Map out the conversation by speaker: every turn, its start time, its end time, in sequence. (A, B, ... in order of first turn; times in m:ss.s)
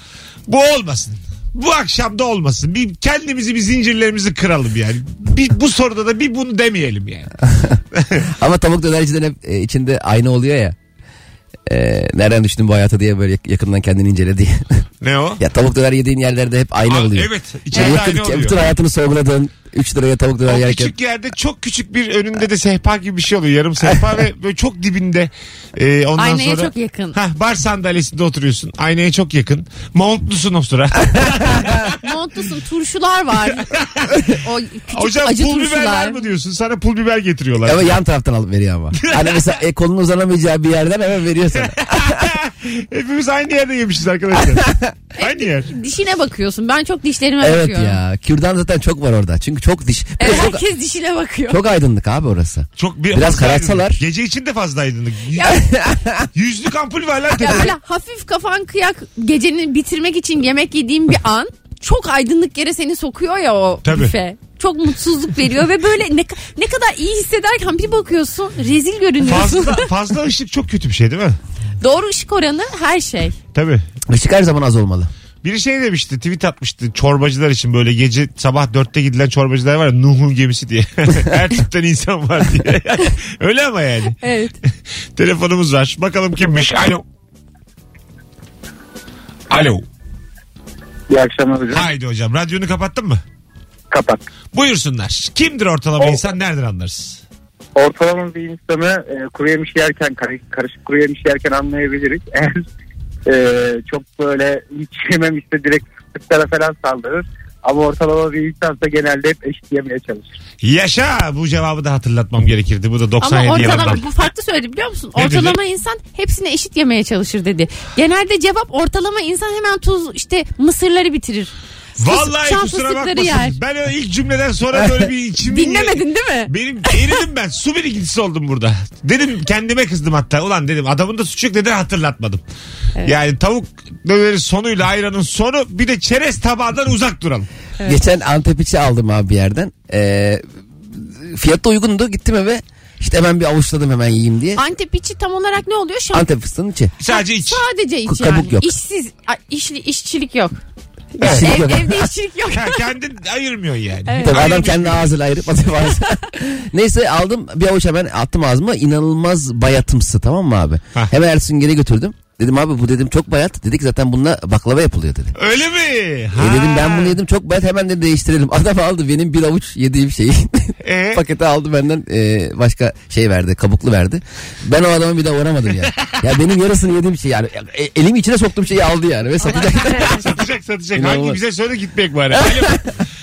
0:00.5-0:07.3 A
0:08.0-0:08.3 A
0:08.4-0:10.8 B
0:11.7-0:14.8 B
0:15.0-0:15.4 A
0:15.4-0:20.9 B
0:16.9-0:18.6 A
0:20.5-0:32.0 A
0:26.2-0:27.2 C
0:32.0-0:36.3 C
0:33.6-0:34.4 A
0:34.9-0:38.0 A
0:37.6-0:42.2 B
0:39.0-0:39.4 A
0:41.6-0:45.7 A
0:44.5-0:44.9 B
0:45.2-0:48.0 C
0:47.4-0:50.6 B
0:50.2-0:51.6 C
0:51.5-0:54.0 B
0:52.8-0:55.6 A
0:55.5-0:56.3 B
0:56.4-0:57.7 A
0:57.4-1:09.9 C
1:03.8-1:04.2 A
1:09.2-1:11.4 A
1:11.8-1:13.4 C
1:13.5-1:13.8 A
1:14.1-1:15.1 B
1:15.4-1:24.2 A
1:24.2-1:24.6 C
1:25.2-1:27.0 A
1:29.5-1:29.8 A
1:31.1-1:31.8 D
1:31.7-1:33.2 A
1:33.9-1:34.3 D
1:34.5-1:37.2 A
1:37.8-1:42.7 D
1:43.3-1:50.4 D
1:50.6-1:54.0 A
1:53.2-2:03.6 C
1:55.2-1:55.6 A
2:02.0-2:12.4 A
2:05.5-2:07.2 C
2:13.0-2:17.5 A
2:17.8-2:24.6 B
2:24.6-2:26.3 C
2:26.1-2:26.9 B
2:27.0-2:27.6 A
2:27.1-2:30.6 C
2:28.1-2:28.7 B
2:31.2-2:32.9 C
2:31.2-2:31.5 A
2:31.2-2:32.1 B
2:32.5-2:35.1 A
2:34.1-2:34.4 C
2:34.2-2:45.3 B
2:45.4-2:47.2 A
2:46.4-3:00.2 B
2:50.8-2:51.2 A
2:59.4-3:00.3 C
3:00.0-3:02.9 A
3:00.9-3:01.4 B
3:02.4-3:02.7 B